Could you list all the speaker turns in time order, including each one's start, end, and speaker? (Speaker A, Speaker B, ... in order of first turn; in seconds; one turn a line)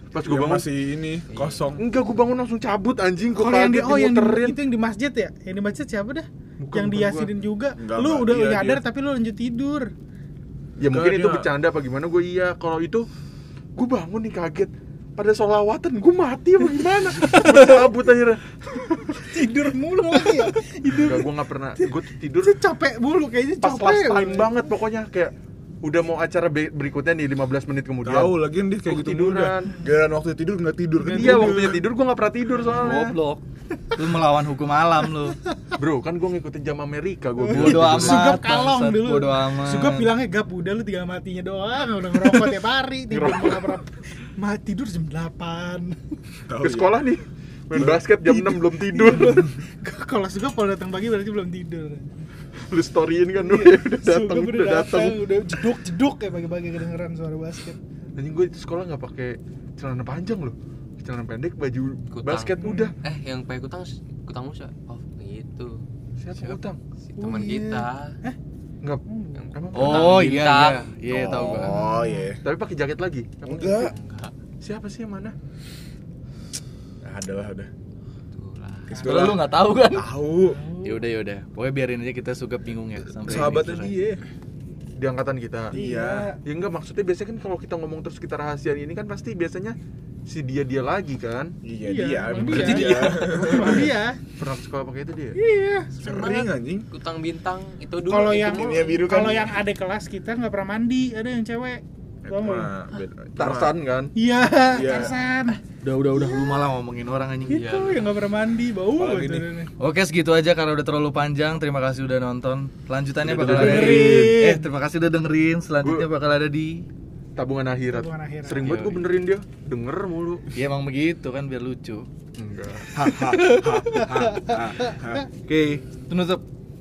Speaker A: 0.1-0.7
Speaker B: 0.2-1.8
Speaker C: 1.3-1.6
Speaker A: 1.8-4.6
Speaker D: 3.3-9.9
Speaker A: 6.6-7.3
Speaker B: 7.8-8.8
Speaker A: 10.8-13.1
Speaker B: 10.8-11.5
Speaker A: 13.8-19.3
Speaker D: 19.2-24.5
Speaker A: 20.9-22.6
Speaker A: 23.6-29.8
Speaker B: 28.0-31.8
Speaker D: 31.0-31.8
Speaker A: 31.1-33.1
Speaker E: 32.7-35.4
Speaker A: 35.8-38.4
Speaker D: 37.5-46.0
Speaker E: 37.5-40.1
Speaker A: 43.1-43.7
Speaker B: 46.5-47.0
Speaker A: 46.6-49.5
Speaker D: 48.0-52.3
Speaker A: 52.7-55.2
Speaker D: 53.4-57.8
Speaker A: 58.1-62.9
Speaker C: 62.1-65.8
Speaker D: 62.6-62.9
Speaker A: 66.2-66.8
Speaker C: 67.1-68.2
Speaker D: 67.2-68.4
Speaker A: 68.8-70.3
Speaker D: 69.0-69.5
Speaker C: 69.3-70.8
Speaker E: 69.7-71.8
Speaker B: 71.1-72.4
Speaker D: 71.7-72.3
Speaker A: 72.4-73.8
Speaker B: 73.4-73.9
Speaker C: 73.7-74.3
Speaker A: 74.6-75.3
Speaker B: 77.0-77.7
Speaker C: 78.3-79.1
Speaker B: 78.9-80.6
Speaker E: 79.0-80.1
Speaker D: 80.5-81.0
Speaker E: 80.8-83.9
Speaker B: 83.2-84.2
Speaker A: 85.0-85.8
Speaker B: 85.7-86.2
Speaker D: 85.7-86.4
Speaker A: 86.4-91.5
Speaker B: 91.6-93.9
Speaker D: 91.8-94.2
Speaker C: 92.5-93.0
Speaker A: 92.6-92.8
Speaker E: 92.6-92.9
Speaker A: 93.4-95.4
Speaker D: 95.3-95.9
Speaker C: 96.0-99.3
Speaker B: 96.0-96.9
Speaker D: 98.0-102.7
Speaker B: 98.4-99.5
Speaker B: 102.2-103.7
Speaker A: 103.4-104.1
Speaker D: 104.2-105.6
Speaker B: 104.7-105.1
Speaker E: 105.8-107.8
Speaker D: 106.2-106.5
Speaker C: 107.5-108.0
Speaker D: 107.5-109.7
Speaker B: 109.0-109.5
Speaker E: 109.8-116.8
Speaker A: 113.2-114.4
Speaker B: 113.3-113.9
Speaker D: 113.5-114.6
Speaker A: 117.3-120.5
Speaker D: 117.9-118.7
Speaker E: 118.6-119.1
Speaker E: 120.5-122.0
Speaker A: 122.4-122.9
Speaker B: 122.9-125.2
Speaker E: 123.1-124.1
Speaker D: 123.9-124.9
Speaker E: 125.5-126.4